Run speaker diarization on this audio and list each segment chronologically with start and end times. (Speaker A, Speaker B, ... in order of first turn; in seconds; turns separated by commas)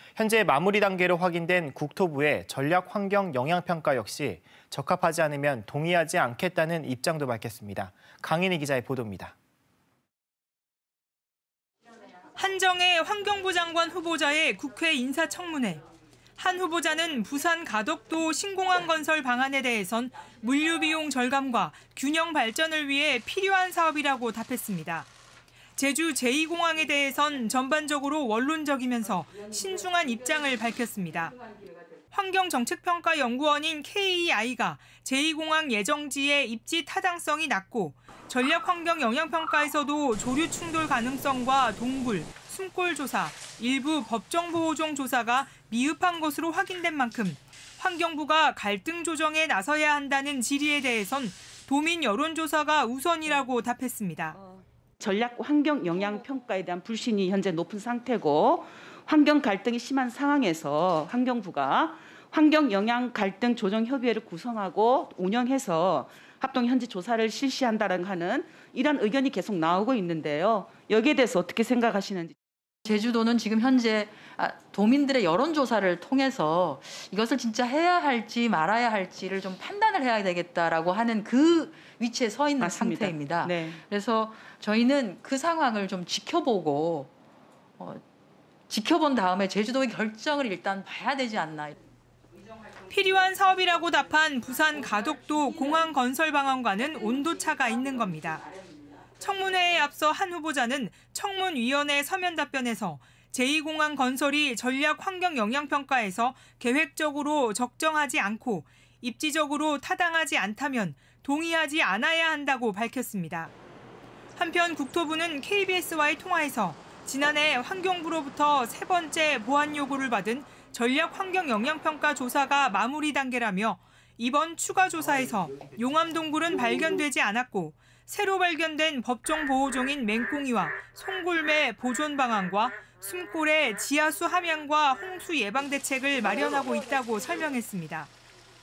Speaker A: 0.2-9.3, Speaker B: 12.4-15.8, Speaker B: 16.4-25.1, Speaker B: 25.8-31.4, Speaker B: 32.1-54.4, Speaker C: 54.4-72.3, Speaker D: 72.8-87.1, Speaker C: 82.6-83.8, Speaker D: 88.7-91.8, Speaker B: 92.9-98.4, Speaker B: 99.2-113.5, Speaker B: 114.4-138.1